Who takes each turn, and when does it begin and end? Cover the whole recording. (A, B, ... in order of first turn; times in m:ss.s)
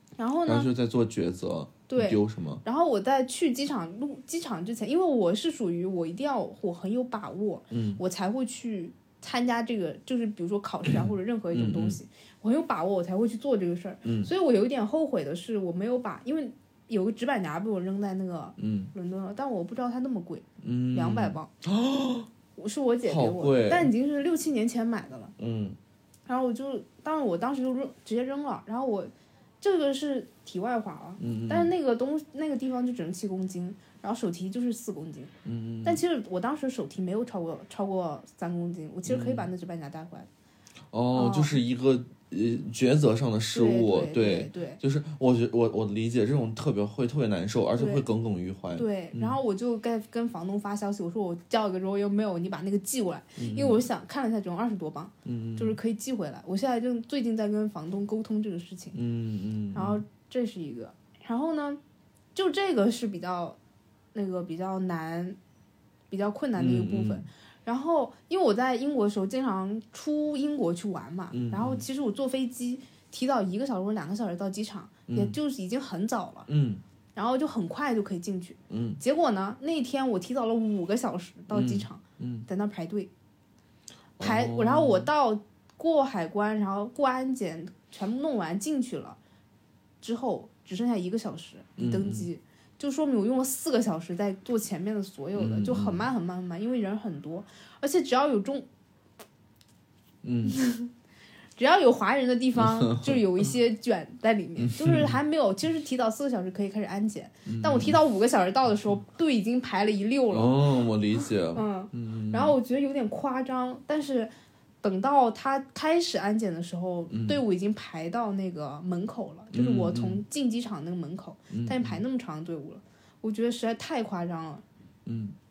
0:00.2-0:00.7 A
0:00.5-0:02.6 B
0:01.9-0:21.5 A
0:07.7-0:08.0 B
0:10.9-0:12.0 B
0:14.0-0:14.3 B
0:18.6-0:18.9 B
0:20.6-0:22.3 B
0:22.6-0:25.3 A
0:23.0-0:23.9 B
0:25.4-0:25.8 B
0:26.3-0:35.3 A
0:31.2-0:31.7 B
0:35.4-0:36.0 B
0:35.8-0:40.3 A
0:39.1-0:39.5 B
0:40.9-0:49.4 B
0:41.1-0:41.6 A
0:43.5-0:44.8 A
0:47.8-0:48.0 A
0:48.8-0:59.0 A
0:53.4-0:53.8 B
0:55.2-0:55.8 B
0:58.9-1:00.0 B
0:59.7-1:01.8 A
1:02.4-1:03.6 A
1:04.1-1:05.4 A
1:06.1-1:16.5 A
1:06.6-1:07.3 B
1:11.3-1:11.8 B
1:15.1-1:15.4 B
1:16.5-1:16.8 B
1:17.2-1:23.1 A
1:18.7-1:19.0 B
1:21.5-1:22.5 B
1:24.2-1:25.1 B
1:24.2-1:29.2 A
1:30.0-1:38.7 A
1:31.8-1:32.3 B
1:35.4-1:36.0 B
1:40.2-1:40.6 B
1:40.4-1:40.9 A
1:41.6-1:50.6 A
1:42.6-1:43.5 B
1:44.6-1:45.2 B
1:47.5-1:48.0 B
1:50.3-1:52.6 B
1:51.5-1:54.3 A
1:54.8-2:04.6 A
1:57.1-1:57.4 B
1:59.5-2:00.2 B
2:01.5-2:02.0 B
2:05.1-2:05.4 B